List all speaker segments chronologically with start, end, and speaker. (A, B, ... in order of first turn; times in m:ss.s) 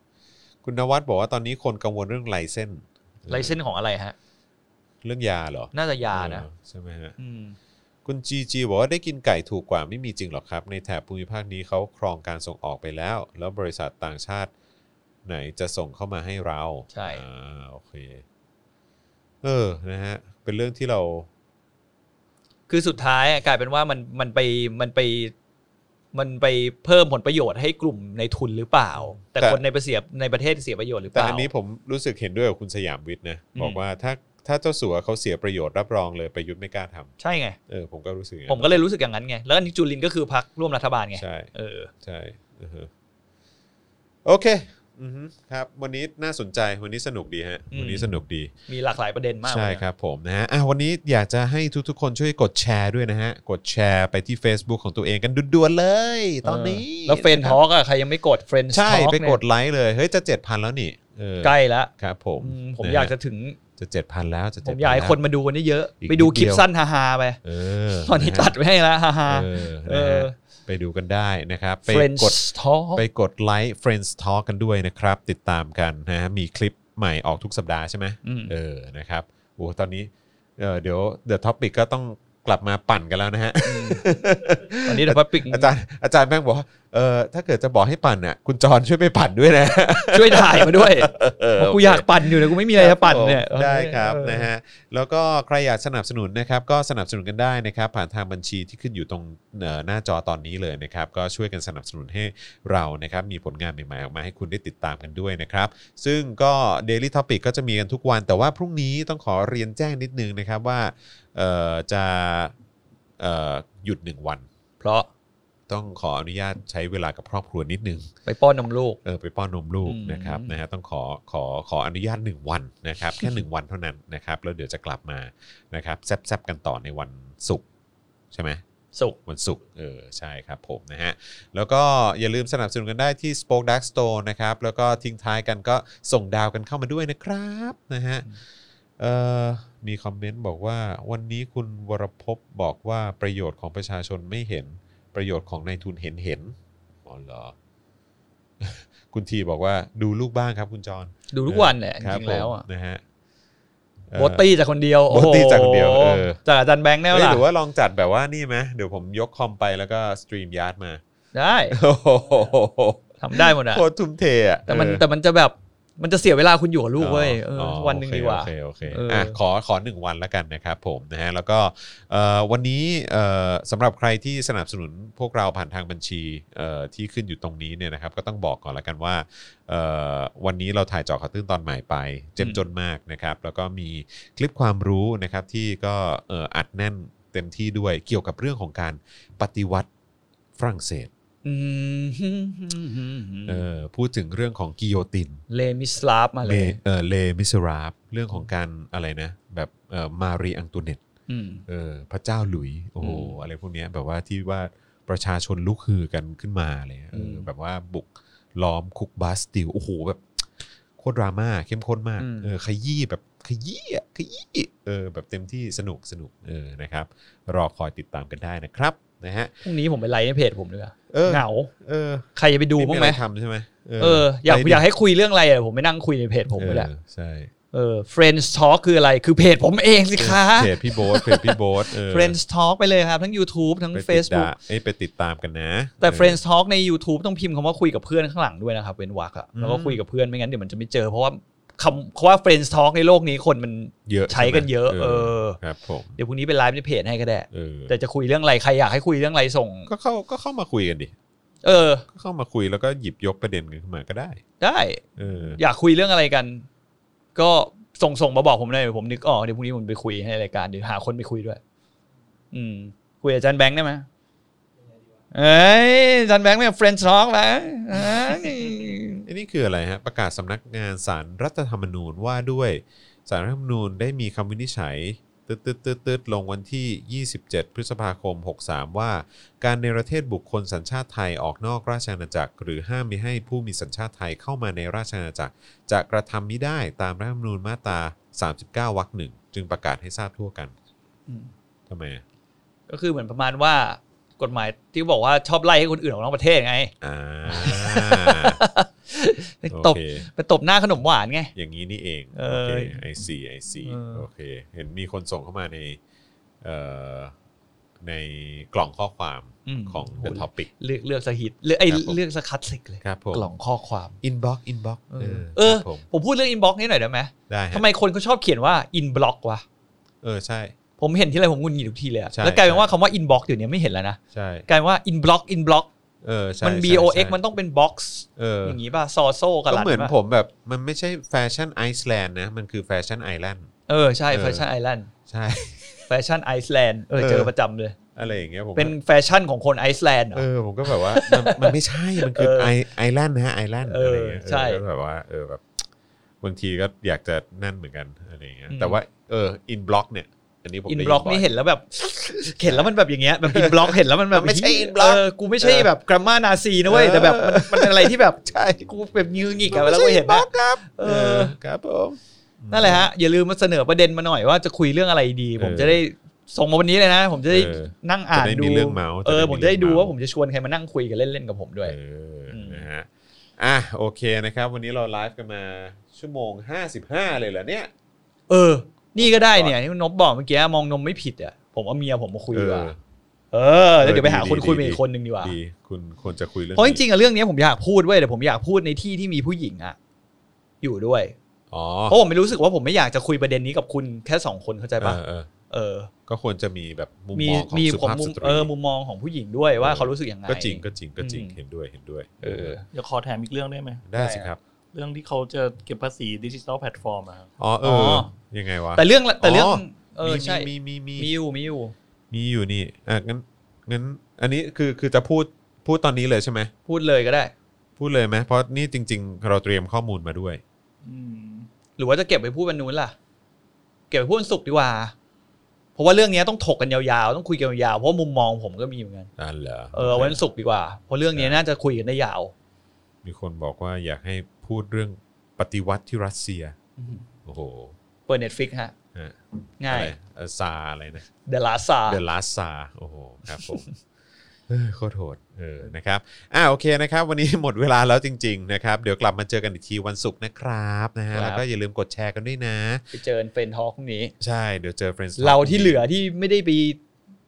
0:00.6-0:03.6 A
0:03.3-0:04.1 B
0:05.0-0:07.2 A
0:05.7-0:06.4 B
0:07.2-0:07.6 B
0:08.0-0:14.5 A
0:15.2-0:18.2 A
0:16.9-0:17.2 B
0:19.4-0:21.3 A
0:22.7-0:25.3 B
0:26.1-0:31.5 B
0:29.2-0:29.6 A
0:31.1-0:37.1 A
0:33.5-0:33.8 B
0:37.2-0:37.6 B
0:37.7-0:38.8 A
0:38.5-0:41.9 B
0:41.2-0:42.9 A
0:44.2-0:48.5 A
0:47.7-0:48.1 B
0:48.7-0:49.8 B
0:49.4-0:57.6 A
0:56.4-0:59.4 B
0:58.7-1:03.1 A
1:01.4-1:03.6 B
1:03.8-1:05.2 A
1:04.6-1:07.4 B
1:06.0-1:06.6 A
1:07.4-1:08.5 A
1:08.0-1:10.3 B
1:09.3-1:12.4 A
1:11.9-1:13.0 B
1:12.9-1:52.5 A
1:18.2-1:18.5 B
1:23.6-1:24.0 B
1:24.8-1:25.7 B
1:30.1-1:34.5 B
1:53.2-1:54.5 A
1:54.8-1:55.1 B
1:55.7-1:58.1 A
1:58.2-1:59.0 B
1:59.0-2:07.6 A
1:59.8-2:00.6 B
2:08.3-2:08.6 A
2:09.2-2:18.3 A
2:19.0-2:27.5 A
2:28.6-2:33.0 A
2:31.3-2:32.6 B
2:34.1-2:34.4 A
2:34.1-2:37.4 B
2:35.1-2:36.4 A
2:37.1-2:41.0 A
2:41.3-2:41.8 B
2:41.7-2:45.0 A
2:43.2-2:43.8 B
2:44.7-2:49.4 B
2:47.0-3:09.9 A
3:10.6-3:11.1 A
3:11.4-3:13.6 B
3:13.5-3:15.4 A
3:15.5-3:16.8 B
3:16.4-3:21.0 A
3:21.3-3:21.6 B
3:21.7-3:39.6 A
3:23.0-3:23.4 B
3:27.1-3:27.5 B
3:32.2-3:32.5 B
3:39.6-3:41.7 B
3:41.1-3:44.8 A
3:42.4-3:43.2 B
3:44.0-3:46.9 B
3:46.6-3:47.5 A
3:47.7-3:54.5 B
3:50.2-3:52.4 A
3:53.9-3:56.4 A
3:56.0-4:05.6 B
3:59.5-4:00.0 A
4:04.1-4:06.2 A
4:06.2-4:09.9 B
4:07.5-4:07.9 A
4:09.9-4:11.1 A
4:11.6-4:12.0 B
4:12.1-4:14.4 A
4:14.6-4:15.0 B
4:15.2-4:15.6 A
4:15.6-4:16.7 B
4:17.3-4:21.6 B
4:22.5-4:24.1 B
4:25.3-4:29.2 B
4:29.2-4:50.7 A
4:51.9-4:52.2 A
4:52.9-4:56.9 B
4:57.0-4:58.6 A
4:57.4-5:01.5 B
4:59.7-5:00.3 A
5:01.5-5:06.0 A
5:02.3-5:03.0 B
5:03.8-5:04.2 B
5:06.6-5:07.3 A
5:08.0-5:10.7 A
5:09.6-5:14.2 B
5:11.9-5:12.2 A
5:13.0-5:13.5 A
5:14.2-5:16.0 A
5:15.1-5:19.6 B
5:17.5-5:17.8 A
5:20.2-5:20.7 A
5:21.0-5:25.9 B
5:22.3-5:22.9 A
5:24.3-5:24.6 A
5:26.2-5:27.4 A
5:26.6-5:30.1 B
5:28.4-5:28.8 A
5:29.7-5:33.7 A
5:33.9-5:35.1 B
5:34.3-5:34.6 A
5:35.3-5:36.0 A
5:36.1-5:38.0 B
5:37.2-5:37.5 A
5:38.1-5:38.9 A
5:38.7-5:42.7 B
5:40.3-5:45.8 A
5:43.8-5:44.8 B
5:46.4-5:51.5 A
5:48.7-5:49.0 B
5:50.9-6:01.5 B
5:52.5-5:52.9 A
5:53.4-5:55.9 A
5:56.9-5:59.0 A
5:59.7-6:03.1 A
6:02.7-6:12.0 B
6:05.6-6:06.0 A
6:07.5-6:10.1 A
6:11.8-6:17.9 A
6:12.5-6:12.8 B
6:18.5-6:22.9 B
6:19.1-6:19.8 A
6:22.5-6:23.0 A
6:23.5-6:25.5 B
6:24.0-6:27.0 A
6:26.7-6:30.0 B
6:30.8-6:31.4 B
6:31.7-6:32.2 A
6:32.1-6:36.1 B
6:35.0-6:35.5 A
6:36.3-6:38.7 A
6:37.3-6:41.5 B
6:39.8-6:42.8 A
6:42.4-6:42.8 B
6:42.9-6:44.0 C
6:44.1-6:44.6 A
6:44.1-6:44.5 B
6:44.9-6:47.5 C
6:47.6-6:51.3 A
6:47.8-6:48.3 B
6:48.9-6:51.9 B
6:52.3-6:56.7 A
6:56.9-6:57.5 B
6:58.0-7:00.6 A
7:01.0-7:01.7 C
7:02.0-7:03.1 B
7:04.1-7:05.1 B
7:06.0-7:09.3 B
7:09.4-7:10.4 A
7:09.9-7:12.5 B
7:11.3-7:11.6 A
7:13.2-7:16.8 A
7:17.0-7:17.2 B
7:17.4-7:17.9 A
7:18.3-7:18.9 B
7:19.8-7:20.1 B
7:19.9-7:21.3 A
7:21.4-7:22.2 B
7:22.1-7:23.9 A
7:23.5-7:23.9 B
7:24.7-7:33.0 A
7:31.3-7:31.6 B
7:33.1-7:34.3 B
7:34.4-7:36.0 A
7:35.4-7:37.0 B